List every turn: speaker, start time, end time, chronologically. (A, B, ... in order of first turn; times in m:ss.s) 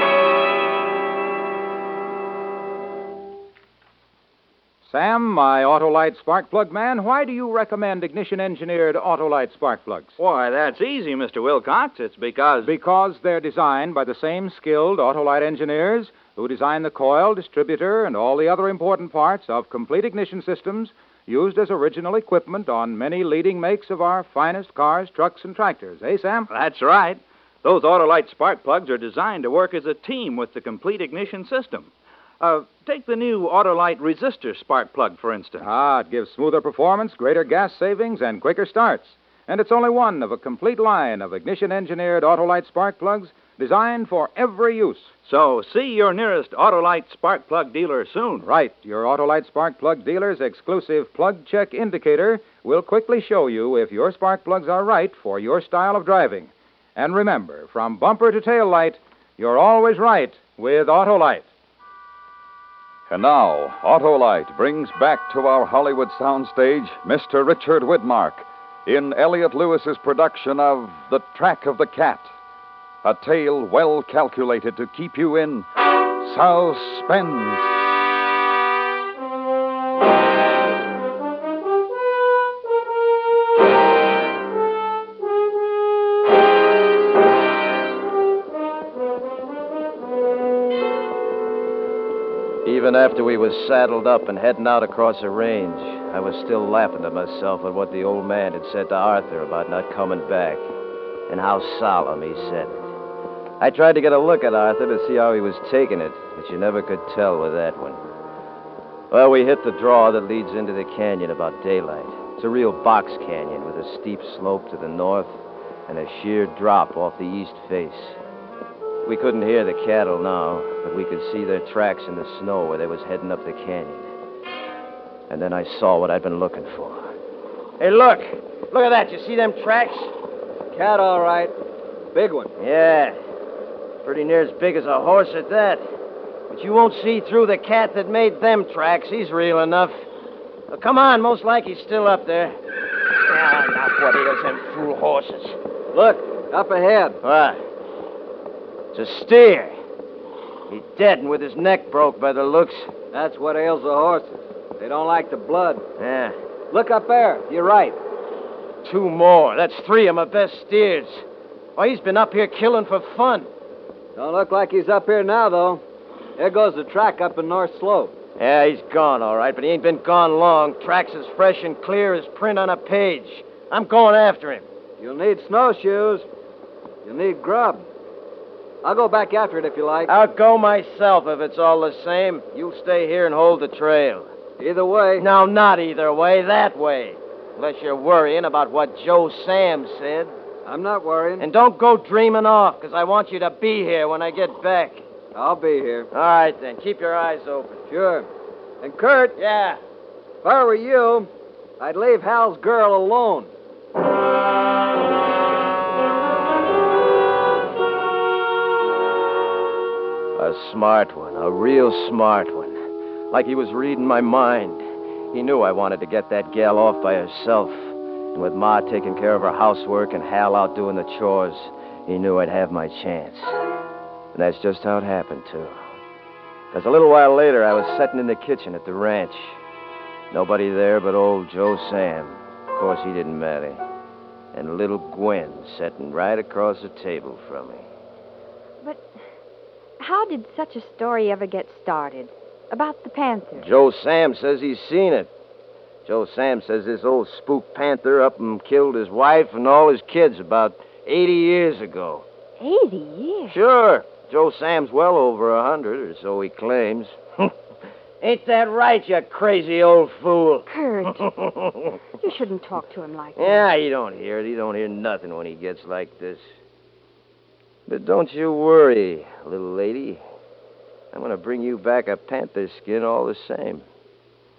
0:04.8-0:10.1 A
0:10.2-0:12.7 B
0:12.6-0:26.5 A
0:26.5-0:35.6 B
0:35.6-0:45.1 A
0:45.2-0:48.4 B
0:48.4-1:01.5 A
1:03.1-1:12.3 C
1:13.0-1:15.6 C
1:16.2-1:17.8 C
1:32.6-1:40.6 D
1:41.3-1:42.8 D
1:43.6-1:48.0 D
1:49.1-1:55.4 D
1:55.9-1:58.2 D
1:59.0-2:04.1 D
2:05.3-2:07.1 D
2:07.8-2:10.1 D
2:10.7-2:11.5 E
2:12.1-2:12.5 E
2:12.6-2:13.2 D
2:14.0-2:15.9 D
2:16.5-2:20.0 D
2:20.7-2:22.6 D
2:23.2-2:25.6 D
2:25.9-2:27.2 E
2:27.2-2:27.6 D
2:28.9-2:29.8 D
2:30.7-2:32.9 D
2:33.1-2:35.8 E
2:36.0-2:36.3 D
2:36.7-2:38.0 E
2:38.8-2:41.2 D
2:41.8-2:43.5 D
2:44.2-2:45.8 E
2:46.4-2:48.1 E
2:48.4-2:54.6 D
2:55.0-2:56.2 E
2:57.0-2:57.8 E
2:58.8-3:00.1 E
3:00.0-3:04.3 D
3:04.6-3:05.2 E
3:05.2-3:10.3 D
3:10.6-3:11.5 E
3:11.4-3:15.0 D
3:15.3-3:16.1 E
3:16.1-3:17.8 D
3:17.9-3:18.3 E
3:18.8-3:19.4 E
3:19.4-3:19.8 D
3:20.4-3:21.3 E
3:21.8-3:23.5 E
3:30.4-3:32.8 D
3:33.3-3:43.6 D
3:44.3-3:45.8 D
3:46.7-3:49.6 D
3:50.3-3:53.8 D
3:54.5-3:57.9 D
3:58.8-3:59.0 F
4:00.0-4:03.7 F
4:03.5-4:05.3 D
4:06.0-4:12.2 D
4:12.6-4:13.6 F
4:13.5-4:17.5 D
4:18.2-4:21.9 D
4:20.7-4:21.3 F
4:22.2-4:23.6 F
4:23.4-4:26.4 D
4:27.9-4:30.2 D
4:31.1-4:33.8 D